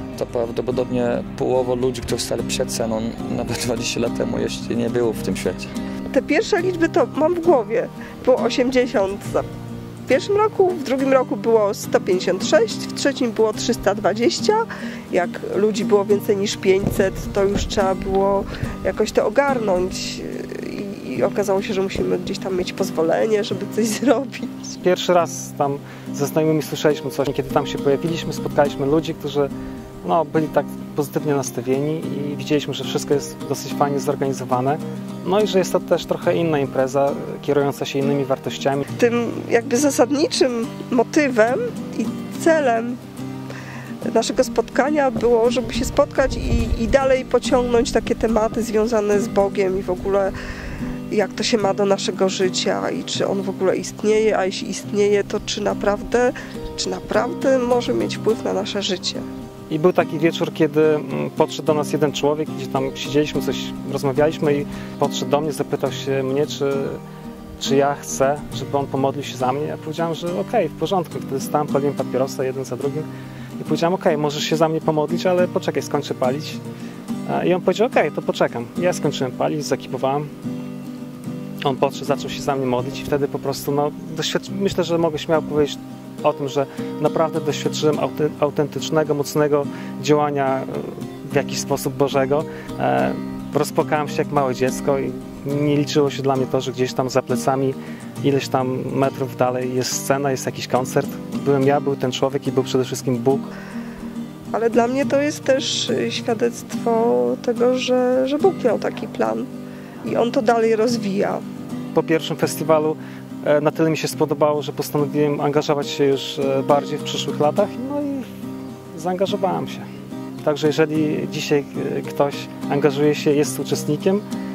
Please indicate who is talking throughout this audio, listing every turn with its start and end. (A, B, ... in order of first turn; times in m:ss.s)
0:00.2-0:05.7 A
0:06.1-0:09.5 B
0:10.1-0:24.8 B
0:24.8-0:29.5 C
0:30.0-0:38.8 C
0:39.0-0:43.0 B
0:44.1-0:50.3 B
0:51.1-0:59.3 B
0:59.7-1:07.0 C
1:07.6-1:13.1 C
1:13.6-1:16.6 C
1:17.3-1:20.3 C
1:21.6-1:43.5 C
1:44.5-1:49.5 B
1:50.0-1:51.4 B
1:51.9-1:58.3 C
1:58.9-1:59.9 C
2:00.4-2:04.2 C